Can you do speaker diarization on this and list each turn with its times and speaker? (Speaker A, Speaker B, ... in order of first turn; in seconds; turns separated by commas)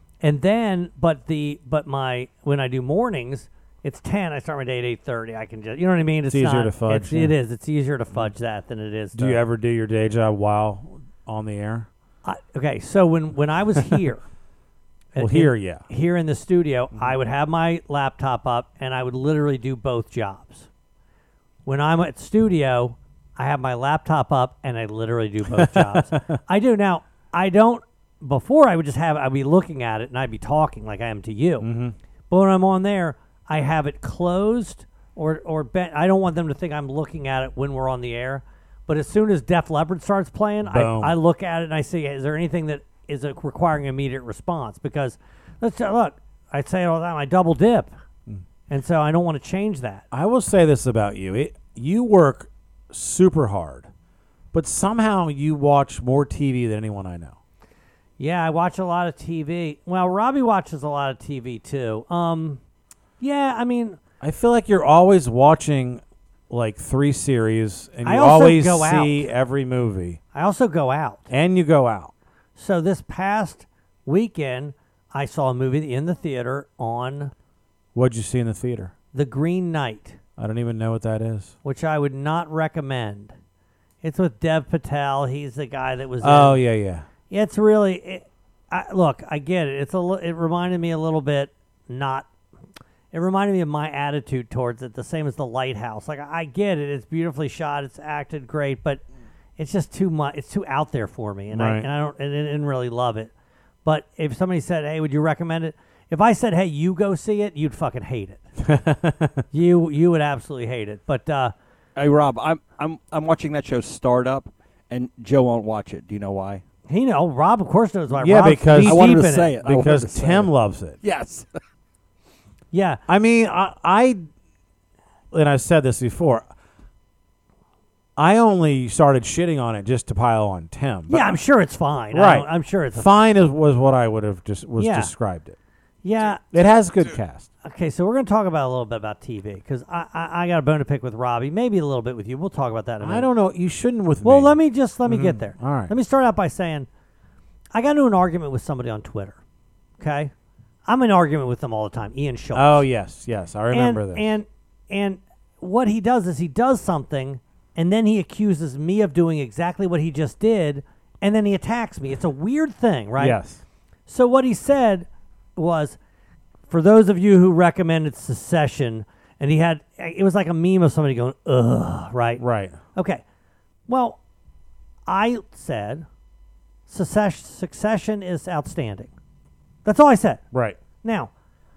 Speaker A: 0.2-9.4, Speaker B: 6.3-7.3, Speaker B: 9.1-11.9, Speaker A: 12.2-14.2, Speaker A: 15.1-20.7, Speaker B: 15.2-15.8, Speaker A: 21.7-31.7, Speaker B: 25.5-26.2, Speaker B: 31.6-31.9, Speaker A: 32.3-47.9, Speaker B: 40.7-41.2, Speaker A: 48.7-50.1, Speaker B: 50.1-53.9, Speaker B: 54.5-57.4, Speaker A: 58.2-62.6, Speaker A: 63.2-64.0, Speaker B: 64.2-70.2, Speaker A: 68.0-69.3, Speaker A: 70.3-71.3, Speaker B: 71.3-72.1, Speaker A: 72.6-77.3, Speaker B: 78.0-78.9, Speaker A: 79.1-80.2, Speaker B: 80.4-81.5, Speaker A: 81.6-83.3, Speaker A: 84.0-86.6, Speaker B: 86.2-87.0, Speaker A: 87.3-92.3, Speaker A: 93.1-99.0, Speaker A: 99.6-103.3, Speaker B: 101.5-101.9, Speaker A: 103.8-108.4, Speaker B: 108.6-109.4, Speaker A: 109.5-111.5, Speaker C: 112.0-116.6, Speaker A: 116.9-119.5, Speaker B: 118.2-121.0, Speaker C: 118.8-120.5, Speaker C: 121.0-121.5, Speaker A: 122.7-123.0, Speaker B: 123.1-124.3, Speaker B: 125.3-126.5, Speaker B: 128.2-131.3, Speaker A: 131.1-133.1, Speaker B: 132.1-135.6, Speaker A: 134.8-135.1, Speaker A: 136.0-136.5, Speaker B: 136.4-137.5, Speaker A: 137.6-143.3, Speaker B: 143.0-145.9, Speaker A: 144.2-146.9, Speaker A: 147.7-149.4, Speaker A: 150.0-150.3, Speaker A: 150.9-152.9, Speaker B: 152.5-154.3, Speaker A: 153.7-163.4, Speaker B: 163.2-163.6, Speaker A: 164.1-166.0, Speaker A: 166.7-172.4, Speaker B: 172.4-172.8, Speaker A: 172.9-173.2, Speaker A: 173.9-174.2, Speaker A: 175.1-176.1, Speaker A: 176.9-179.1, Speaker A: 179.8-180.4, Speaker B: 180.5-180.8, Speaker A: 181.0-181.3